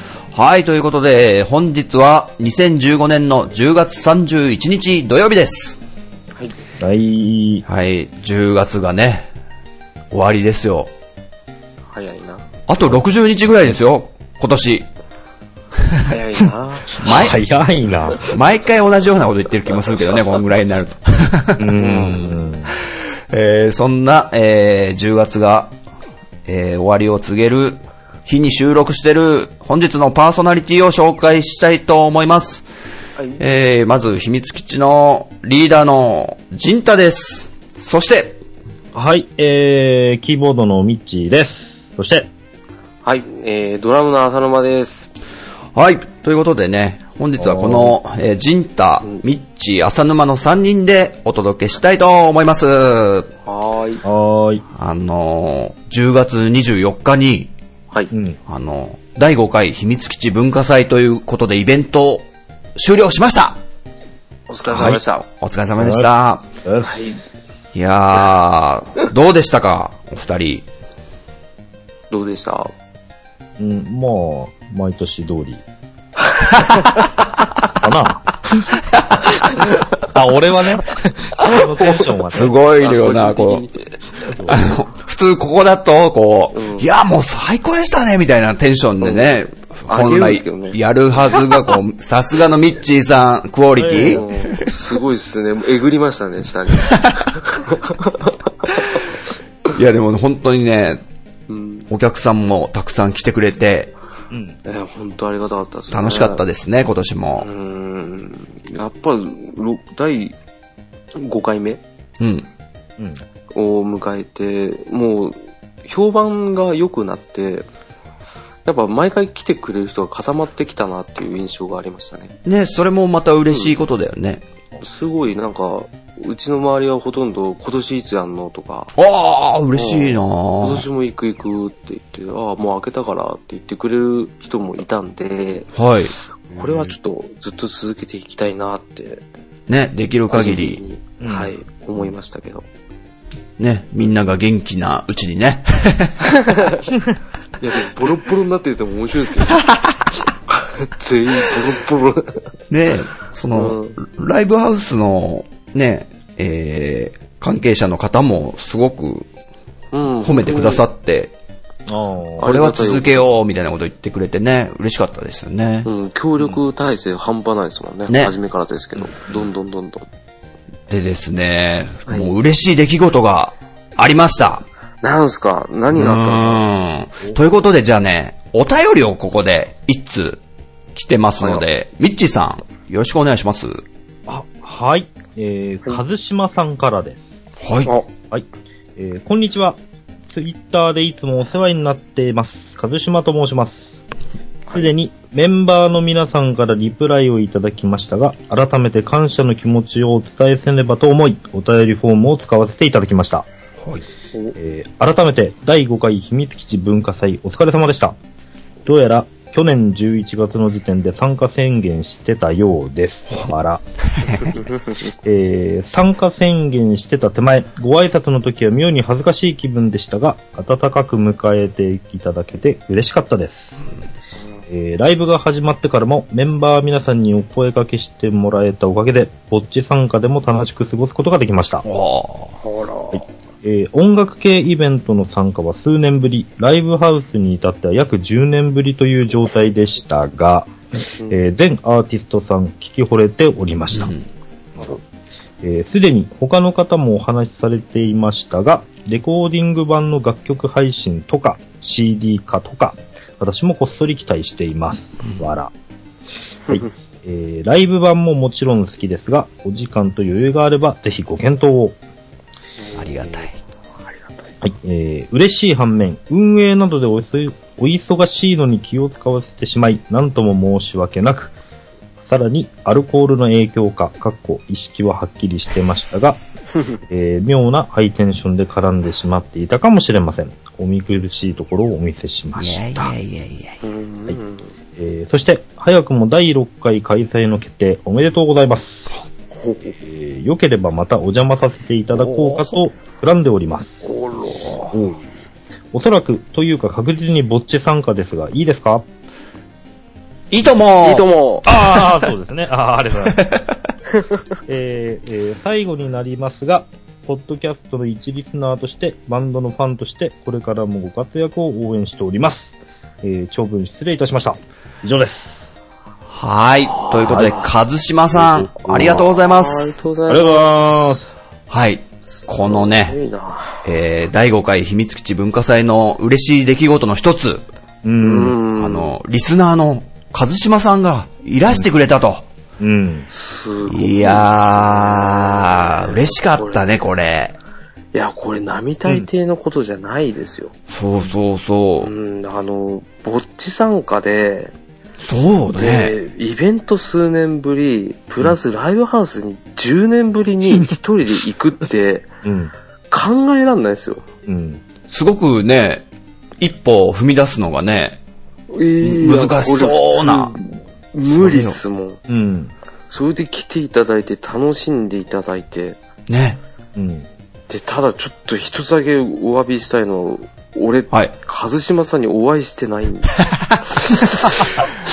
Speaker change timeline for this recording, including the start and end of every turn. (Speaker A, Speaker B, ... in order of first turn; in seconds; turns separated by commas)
Speaker A: 0.3-5.8, Speaker B: 6.8-7.6, Speaker A: 7.7-9.3, Speaker A: 10.1-10.9, Speaker C: 11.9-12.4, Speaker A: 12.7-14.9, Speaker C: 16.0-17.0, Speaker B: 16.9-18.3, Speaker A: 16.9-17.5, Speaker A: 18.1-21.8, Speaker B: 21.6-22.7, Speaker C: 21.8-22.4, Speaker A: 22.8-25.7, Speaker A: 26.4-32.6, Speaker A: 33.4-38.4, Speaker B: 38.9-42.3, Speaker C: 43.0-45.1, Speaker A: 45.7-53.3, Speaker B: 47.4-47.9, Speaker C: 53.5-54.0, Speaker B: 54.0-54.6, Speaker A: 54.7-57.5, Speaker B: 58.1-58.4, Speaker A: 58.5-62.2, Speaker A: 62.8-63.6, Speaker C: 64.5-65.2, Speaker B: 64.7-65.0, Speaker A: 64.9-66.5, Speaker B: 65.8-66.1, Speaker B: 66.6-67.0, Speaker C: 66.8-67.2, Speaker A: 67.7-70.7, Speaker C: 72.1-72.7, Speaker B: 73.6-75.6, Speaker B: 77.7-78.7, Speaker A: 78.9-79.1, Speaker B: 80.0-82.5, Speaker A: 82.3-83.7, Speaker C: 82.5-84.8, Speaker B: 84.2-84.6, Speaker A: 84.4-94.2, Speaker C: 86.5-86.9, Speaker C: 89.0-89.4, Speaker C: 89.9-90.8, Speaker B: 93.8-94.5, Speaker C: 94.0-98.7, Speaker A: 96.8-97.3, Speaker A: 99.7-101.0, Speaker C: 101.5-101.9, Speaker A: 101.9-103.9, Speaker B: 104.3-104.6, Speaker C: 104.6-106.4, Speaker A: 105.9-107.5, Speaker C: 107.4-110.3, Speaker C: 111.2-111.8, Speaker A: 112.2-112.5, Speaker C: 113.5-117.7, Speaker C: 118.7-122.3, Speaker A: 122.4-124.4, Speaker C: 124.8-128.9, Speaker A: 128.9-130.8, Speaker C: 129.7-135.7, Speaker A: 135.7-136.1, Speaker C: 136.5-139.2, Speaker A: 139.7-140.8, Speaker C: 140.3-142.6, Speaker B: 141.2-141.5, Speaker A: 143.6-146.5, Speaker C: 146.3-146.9, Speaker C: 147.6-149.7, Speaker A: 149.7-149.9, Speaker C: 150.5-152.5, Speaker A: 152.7-159.3, Speaker C: 153.5-154.0, Speaker C: 159.9-160.8, Speaker A: 160.2-161.3, Speaker B: 161.9-162.4, Speaker C: 162.4-163.2, Speaker A: 162.4-165.9, Speaker C: 165.8-170.1, Speaker A: 168.1-168.3, Speaker A: 170.9-174.6, Speaker C: 172.1-172.3, Speaker C: 175.0-176.6, Speaker A: 175.9-180.4, Speaker A: 180.9-183.8, Speaker B: 184.3-187.2, Speaker A: 187.6-187.9, Speaker B: 189.0-189.8, Speaker B: 190.3-193.8, Speaker B: 194.7-203.5, Speaker B: 204.6-208.2, Speaker B: 208.8-213.8, Speaker A: 214.1-214.6, Speaker C: 214.5-215.1, Speaker B: 215.2-223.7, Speaker B: 224.7-231.8, Speaker A: 231.8-232.5, Speaker C: 232.6-233.2, Speaker B: 233.1-240.7, Speaker B: 241.3-244.1, Speaker A: 243.9-244.2, Speaker B: 245.6-255.7, Speaker A: 255.2-255.5, Speaker B: 256.7-261.9, Speaker A: 262.9-263.6, Speaker B: 264.6-271.5, Speaker B: 272.3-276.4, Speaker B: 277.1-283.1, Speaker A: 282.6-283.8, Speaker C: 283.8-284.7, Speaker B: 285.0-289.1, Speaker C: 289.5-290.0, Speaker B: 290.0-293.9, Speaker C: 292.2-292.7, Speaker C: 294.0-294.9, Speaker B: 294.9-295.2, Speaker B: 295.9-299.0, Speaker A: 300.5-301.3, Speaker C: 301.0-301.7, Speaker B: 301.6-303.6, Speaker A: 303.4-303.7, Speaker B: 304.7-312.7, Speaker B: 313.2-315.6, Speaker A: 316.3-319.9, Speaker C: 316.9-317.7, Speaker B: 317.2-317.5, Speaker B: 318.4-319.2, Speaker C: 318.9-321.2, Speaker B: 320.3-321.2, Speaker A: 321.7-323.1, Speaker C: 322.3-323.8, Speaker A: 323.8-327.6, Speaker B: 328.0-328.6, Speaker C: 328.2-329.1, Speaker A: 328.7-332.4, Speaker B: 332.8-333.3, Speaker C: 333.3-336.9, Speaker A: 333.9-337.5, Speaker C: 338.1-340.7, Speaker A: 340.9-342.1, Speaker C: 342.0-344.7, Speaker A: 345.2-346.2, Speaker C: 345.7-352.3, Speaker B: 352.4-352.7, Speaker C: 353.1-354.2, Speaker B: 354.5-354.8, Speaker A: 355.1-356.1, Speaker A: 356.6-358.2, Speaker C: 358.7-362.2, Speaker A: 359.0-360.5, Speaker A: 361.3-361.8, Speaker B: 362.3-362.7, Speaker C: 363.1-366.0, Speaker A: 366.3-366.6, Speaker B: 366.9-367.3, Speaker C: 367.7-374.8, Speaker A: 373.4-374.6